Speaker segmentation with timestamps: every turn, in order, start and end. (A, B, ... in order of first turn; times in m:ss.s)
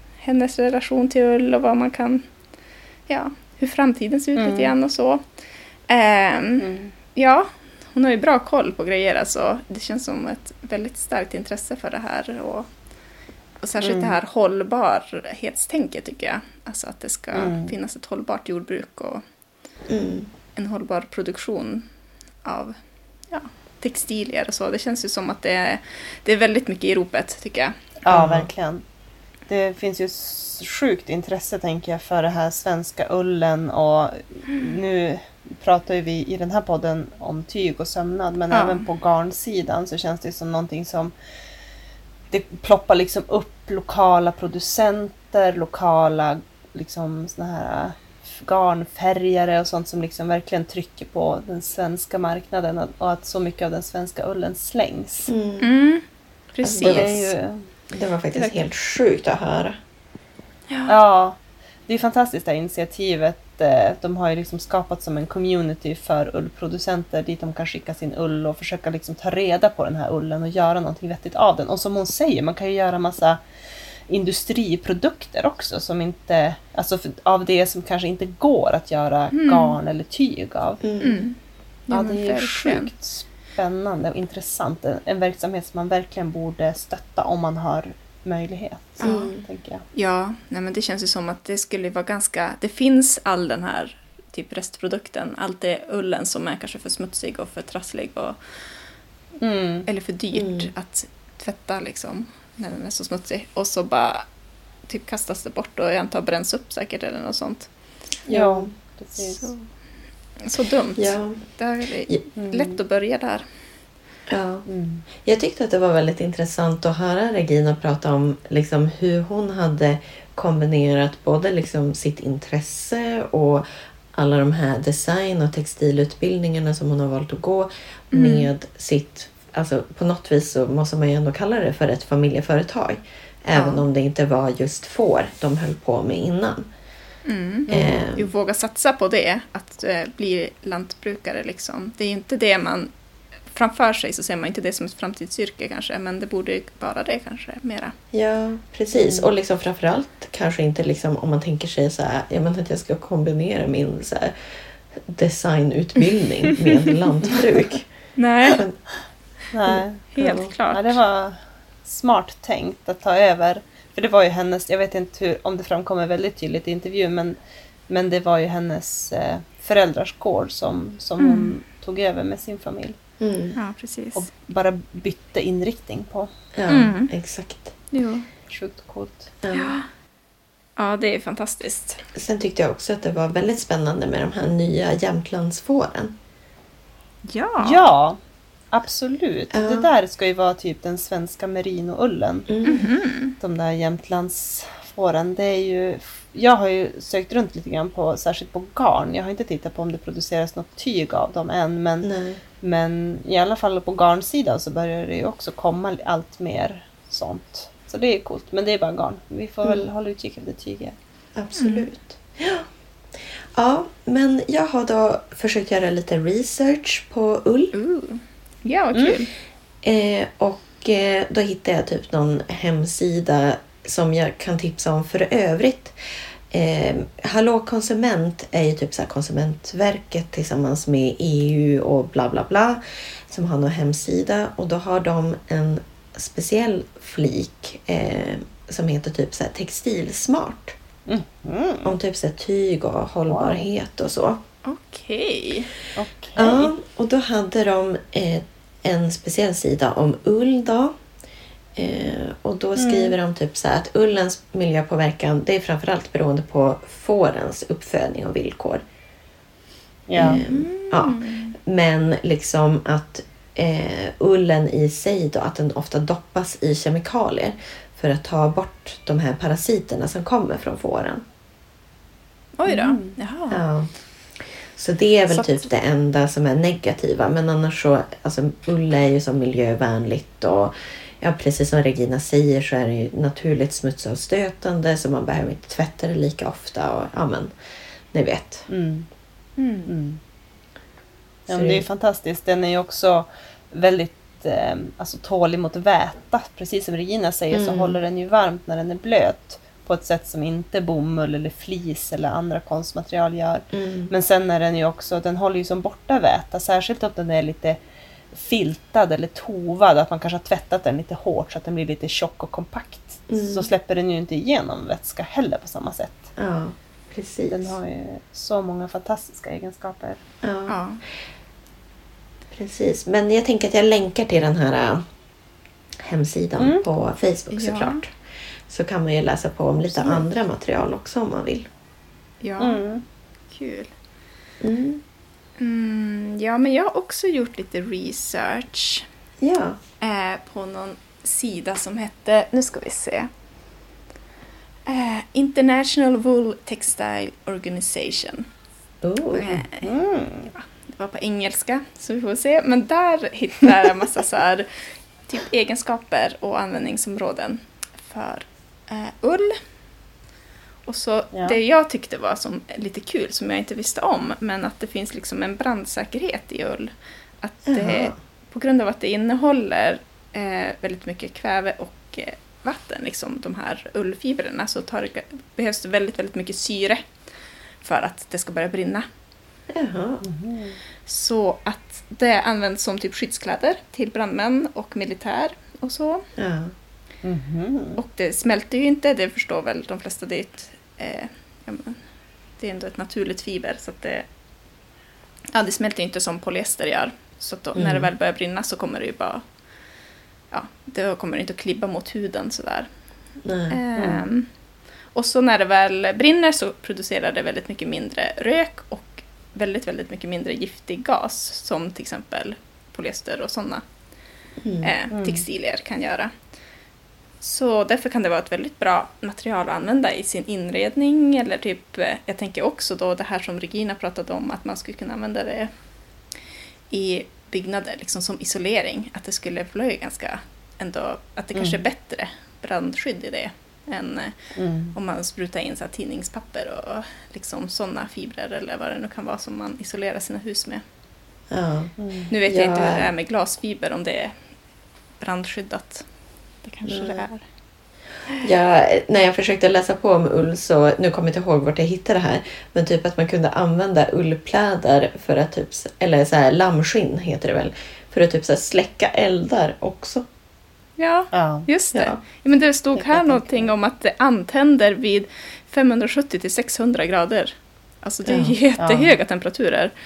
0:00.2-0:02.3 A
0:03.1-0:05.2 A
0:04.4-0:04.7 B
0:05.9-0:12.7 A
0:06.6-0:06.9 B
0:13.6-0:19.2 A
0:13.8-0:14.1 B
0:17.3-0:17.7 B
0:19.9-0:20.3 C
0:20.5-0:21.9 A
0:22.4-0:22.8 A
0:23.3-0:27.8 A
0:28.0-0:28.8 B
0:28.1-0:28.5 C
0:29.5-0:41.1 B
0:38.5-0:38.8 A
0:42.3-0:55.3 B
0:55.3-0:55.7 C
0:55.6-0:57.3 A
0:56.6-0:57.1 C
0:56.8-0:57.6 B
0:57.9-0:59.8 C
1:00.8-1:13.4 B
1:14.1-1:20.8 B
1:19.3-1:19.8 A
1:20.8-1:21.2 C
1:21.0-1:21.4 A
1:21.9-1:22.9 A
1:21.9-1:29.8 B
1:29.0-1:29.3 A
1:29.0-1:29.4 C
1:29.9-1:38.4 A
1:39.4-1:39.9 B
1:39.8-1:44.2 A
1:40.3-1:40.7 C
1:44.9-1:47.7 A
1:48.3-1:48.7 C
1:48.3-1:49.5 B
1:49.4-1:49.7 A
1:50.4-1:53.4 A
1:51.0-1:51.4 C
1:52.4-1:52.8 B
1:54.3-1:54.6 C
1:54.6-1:55.0 B
1:55.2-2:16.7 C
2:08.1-2:08.5 A
2:13.5-2:13.8 A
2:17.2-2:22.9 A
2:17.7-2:18.0 B
2:17.7-2:18.3 C
2:23.5-2:27.9 A
2:28.1-2:37.9 C
2:29.0-2:29.3 B
2:38.2-2:38.6 A
2:38.5-2:38.8 C
2:39.5-2:40.1 B
2:39.7-2:40.5 C
2:40.1-2:41.0 A
2:40.7-2:47.4 B
2:47.9-2:53.0 B
2:51.2-2:51.5 A
2:53.2-2:53.6 C
2:53.6-2:54.2 A
2:54.1-2:56.3 B
2:56.5-2:57.7 C
2:56.7-2:57.1 A
2:57.9-2:58.3 A
2:58.5-2:59.3 B
2:59.4-2:59.8 C
2:59.5-2:59.9 A
3:00.8-3:02.0 A
3:02.1-3:06.2 C
3:07.2-3:07.8 A
3:07.6-3:08.2 B
3:08.7-3:12.6 B
3:09.5-3:09.9 C
3:12.5-3:12.8 C
3:12.6-3:13.3 A
3:13.4-3:22.1 B
3:22.0-3:22.4 C
3:22.6-3:31.0 B
3:31.3-3:37.7 C
3:31.6-3:31.9 A
3:37.7-3:39.3 A
3:39.8-3:46.0 C
3:46.5-4:00.8 C
4:01.1-4:02.0 B
4:01.8-4:04.4 C
4:03.3-4:03.6 B
4:04.6-4:05.7 A
4:06.0-4:06.7 B
4:06.4-4:10.9 C
4:11.8-4:18.8 C
4:12.8-4:13.1 B
4:20.1-4:20.4 B
4:20.2-4:31.2 C
4:20.4-4:21.5 A
4:32.6-4:33.6 A
4:32.7-4:33.1 B
4:33.5-4:47.5 C
4:35.3-4:35.7 A
4:48.1-4:48.7 C
4:48.7-4:49.1 B
4:49.6-4:49.9 A
4:49.8-4:50.2 B
4:51.5-5:07.8 B
4:51.5-4:51.8 C
4:57.5-4:58.0 C
5:03.7-5:04.1 C
5:08.3-5:16.3 B
5:13.3-5:13.7 C
5:16.4-5:17.8 C
5:17.5-5:20.2 B
5:20.4-5:20.8 C
5:20.7-5:21.0 A
5:22.5-5:25.0 C
5:26.0-5:28.2 C
5:26.6-5:26.8 B
5:27.5-5:28.0 A
5:28.7-5:31.7 C
5:29.8-5:30.2 B
5:32.4-5:32.8 A
5:32.6-5:33.0 B
5:33.5-5:33.9 A
5:34.6-5:35.0 C
5:35.6-5:39.0 A
5:39.4-5:39.8 C
5:40.0-5:43.3 A
5:44.9-5:48.5 A
5:49.0-5:49.6 C
5:49.3-5:49.9 A
5:49.6-5:50.5 B
5:50.5-5:54.7 A
5:55.3-5:59.6 A
6:00.9-6:17.0 A
6:07.7-6:08.1 C
6:17.8-6:19.1 A
6:19.7-6:20.2 C
6:20.2-6:20.8 B
6:21.0-6:26.2 A
6:26.4-6:26.7 C
6:27.2-6:28.0 B
6:28.0-6:32.0 A
6:32.6-6:34.2 A
6:35.5-6:39.4 A
6:37.7-6:38.1 C
6:40.5-6:42.9 A
6:43.4-6:43.8 C
6:43.7-6:44.5 A
6:44.0-6:44.2 B
6:45.1-6:53.8 A
6:54.6-6:54.9 C
6:54.8-6:56.3 A
6:55.1-6:55.4 B
6:57.4-7:05.7 A
7:06.9-7:14.4 A
7:11.5-7:11.8 B
7:14.6-7:14.9 B
7:14.9-7:20.8 A
7:21.5-7:23.1 C
7:22.0-7:22.3 B
7:22.3-7:24.3 A
7:25.2-7:26.0 A
7:26.6-7:27.4 A
7:26.8-7:27.2 C
7:28.4-7:40.2 C
7:41.0-7:49.9 A
7:41.3-7:41.7 B
7:41.9-7:42.2 C
7:42.9-7:43.7 B
7:48.2-7:48.5 C
7:48.8-7:49.1 B